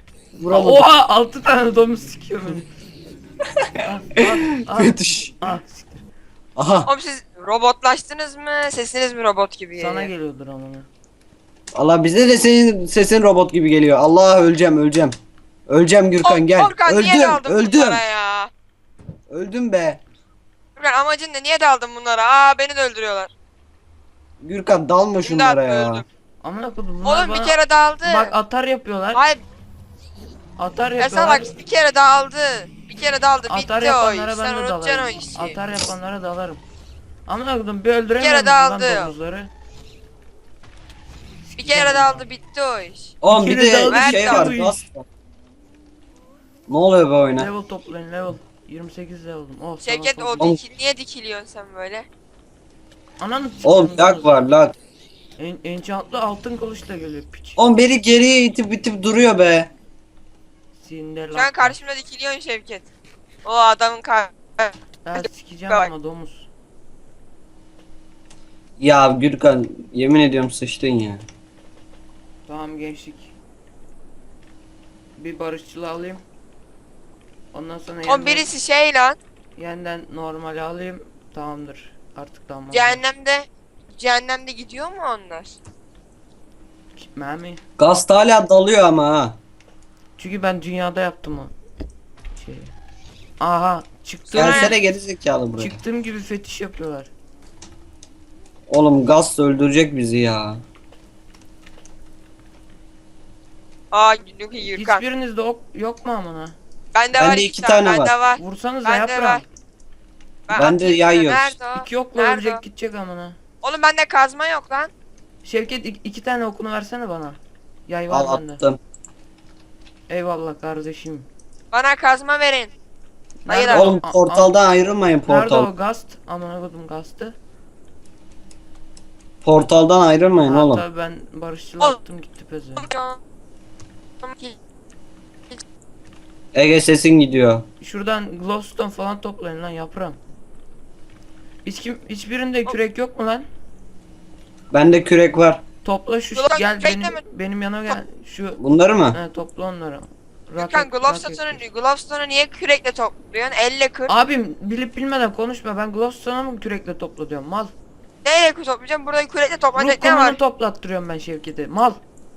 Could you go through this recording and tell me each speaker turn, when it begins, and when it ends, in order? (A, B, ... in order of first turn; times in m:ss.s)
0:00.4-0:00.9 A
0:00.5-0:02.7 B
0:03.8-0:06.0 B
0:04.2-0:05.3 A
0:06.6-0:06.9 A
0:06.9-0:10.1 C
0:09.8-0:10.9 B
0:11.7-0:15.2 A
0:15.7-0:18.0 A
0:16.2-0:18.5 C
0:19.3-0:20.0 A
0:20.8-0:23.3 C
0:24.4-0:26.0 A
0:25.2-0:26.0 C
0:26.4-0:29.2 B
0:27.0-0:28.3 C
0:29.2-0:29.4 C
0:30.6-0:31.5 B
0:31.0-0:35.6 C
0:33.5-0:36.6 B
0:37.3-0:39.5 B
0:38.2-0:39.1 C
0:41.5-0:42.2 B
0:41.6-0:43.2 C
0:43.2-0:45.1 A
0:43.3-0:44.8 B
0:43.9-0:44.5 C
0:46.7-0:47.5 A
0:47.4-0:50.5 B
0:49.8-0:52.1 C
0:53.2-0:54.4 B
0:53.6-0:54.7 A
0:55.4-0:57.6 B
0:57.6-0:59.7 A
1:00.8-1:01.8 B
1:01.4-1:02.8 C
1:03.4-1:05.9 C
1:05.0-1:06.5 B
1:08.8-1:11.2 A
1:12.5-1:13.3 B
1:15.2-1:16.2 B
1:17.5-1:18.5 B
1:18.1-1:19.2 C
1:19.6-1:23.0 B
1:22.7-1:25.6 C
1:27.0-1:27.6 B
1:27.8-1:29.4 A
1:30.2-1:31.5 B
1:32.4-1:32.7 B
1:33.4-1:34.8 B
1:34.3-1:34.8 C
1:34.4-1:35.8 A
1:35.6-1:37.1 B
1:38.7-1:40.6 A
1:43.9-1:45.0 C
1:44.6-1:46.6 B
1:47.0-1:49.4 C
1:47.2-1:48.1 A
1:48.4-1:49.5 B
1:50.5-1:52.6 C
1:50.5-1:51.6 A
1:51.8-1:53.4 B
1:53.6-1:54.9 C
1:55.4-1:58.6 B
1:58.1-1:58.8 A
2:00.1-2:01.3 B
2:01.7-2:02.7 C
2:03.4-2:04.5 B
2:03.5-2:04.0 C
2:03.7-2:05.7 A
2:05.2-2:07.4 B
2:09.4-2:10.8 A
2:10.4-2:12.9 B
2:12.8-2:13.2 C
2:14.2-2:14.6 C
2:16.5-2:17.6 A
2:17.8-2:20.2 B
2:21.6-2:23.5 B
2:24.7-2:25.6 A
2:25.8-2:28.6 B
2:26.4-2:27.2 C
2:28.6-2:29.2 A
2:29.1-2:31.7 B
2:30.6-2:34.1 C
2:34.1-2:37.7 B
2:38.2-2:40.4 C
2:39.8-2:42.0 B